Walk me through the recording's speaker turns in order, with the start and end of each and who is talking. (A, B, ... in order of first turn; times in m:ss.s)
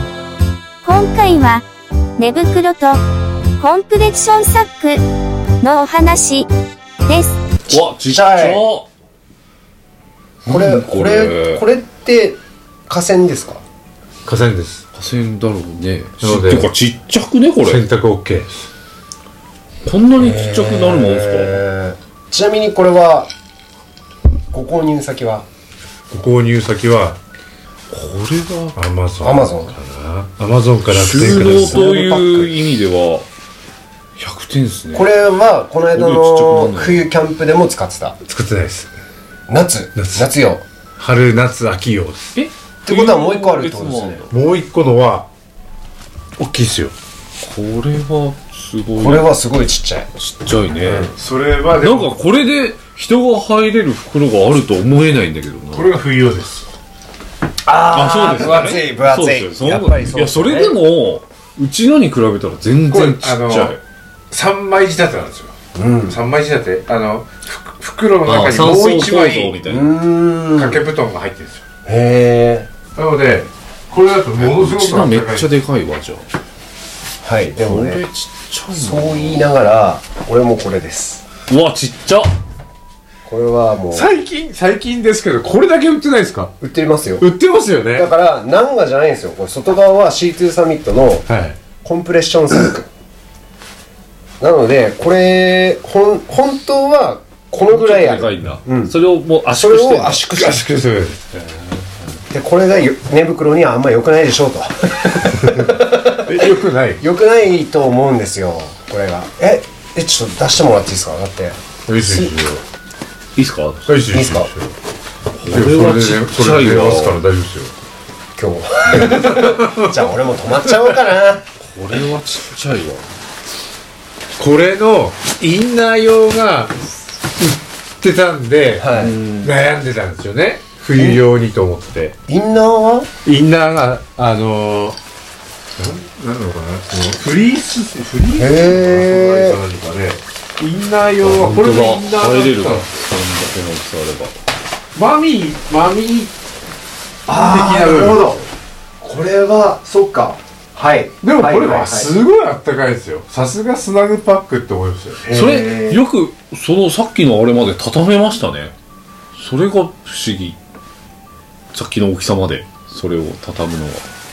0:00.8-0:01.6 A
0:02.2-0:03.0 A
0:03.6-0:05.0 A
0:05.6-0:06.5 A
0:07.1-0:07.4 A
0:07.7-0:08.7 B
0:07.7-0:08.9 C
0:10.4-0:11.6 C
0:10.4-0:13.6 B
0:14.2-0:14.8 D
0:14.9-0:17.8 C
0:16.2-0:16.8 D
0:17.6-0:18.5 D
0:19.8-0:21.6 C
0:20.2-0:23.3 B
0:24.5-0:25.4 B
0:26.1-0:27.2 D
0:27.9-0:28.7 C
0:28.7-0:31.8 D
0:29.2-0:29.7 B
0:31.0-0:33.3 C
0:31.4-0:32.6 B
0:34.2-0:35.1 C
0:34.9-0:38.2 B
0:35.9-0:37.0 C
0:38.2-0:38.9 D
0:39.5-0:40.6 B
0:39.9-0:40.3 D
0:41.0-0:42.4 D
0:42.4-0:44.2 C
0:42.8-0:44.3 B
0:44.3-0:45.3 D
0:46.4-0:46.9 D
0:47.4-0:49.1 C
0:49.0-0:50.1 B
0:50.2-0:51.0 C
0:50.8-0:51.1 B
0:51.1-0:52.4 D
0:51.8-0:55.8 C
0:55.7-0:56.7 D
0:57.6-1:00.8 B
0:58.0-1:03.8 C
1:02.8-1:03.8 D
1:04.3-1:05.5 D
1:05.7-1:06.2 B
1:06.1-1:09.7 D
1:08.3-1:09.8 C
1:09.6-1:10.8 B
1:10.6-1:11.6 D
1:11.8-1:12.7 B
1:12.9-1:15.6 D
1:14.4-1:16.3 C
1:17.2-1:18.0 B
1:17.6-1:19.4 C
1:18.7-1:21.2 B
1:21.5-1:22.3 C
1:23.2-1:24.1 B
1:23.9-1:26.5 D
1:26.6-1:27.3 B
1:27.2-1:28.1 D
1:27.9-1:32.9 B
1:31.3-1:31.6 D
1:34.4-1:39.0 B
1:37.7-1:40.2 C
1:39.5-1:40.6 B
1:40.2-1:41.3 D
1:42.3-1:46.4 B
1:46.2-1:47.0 D
1:47.0-1:52.3 B
1:51.9-1:52.6 D
1:53.4-1:53.9 C
1:53.8-1:54.7 D
1:54.0-1:54.5 B
1:55.4-1:57.1 C
1:55.4-1:57.7 D
1:58.4-2:01.4 B
1:59.0-2:00.9 D
2:01.6-2:03.1 C
2:04.4-2:06.8 D
2:07.4-2:08.9 D
2:08.8-2:09.2 B
2:09.4-2:12.2 D
2:10.9-2:11.2 B
2:12.3-2:13.1 B
2:13.2-2:15.0 D
2:15.8-2:22.9 D
2:18.3-2:19.6 B
2:21.2-2:24.4 C
2:24.9-2:26.3 D
2:27.3-2:28.4 D
2:27.3-2:28.4 B
2:29.0-2:32.1 B
2:31.2-2:35.3 D
2:35.2-2:36.0 B
2:35.3-2:38.7 C
2:39.3-2:40.6 C
2:41.7-2:44.1 C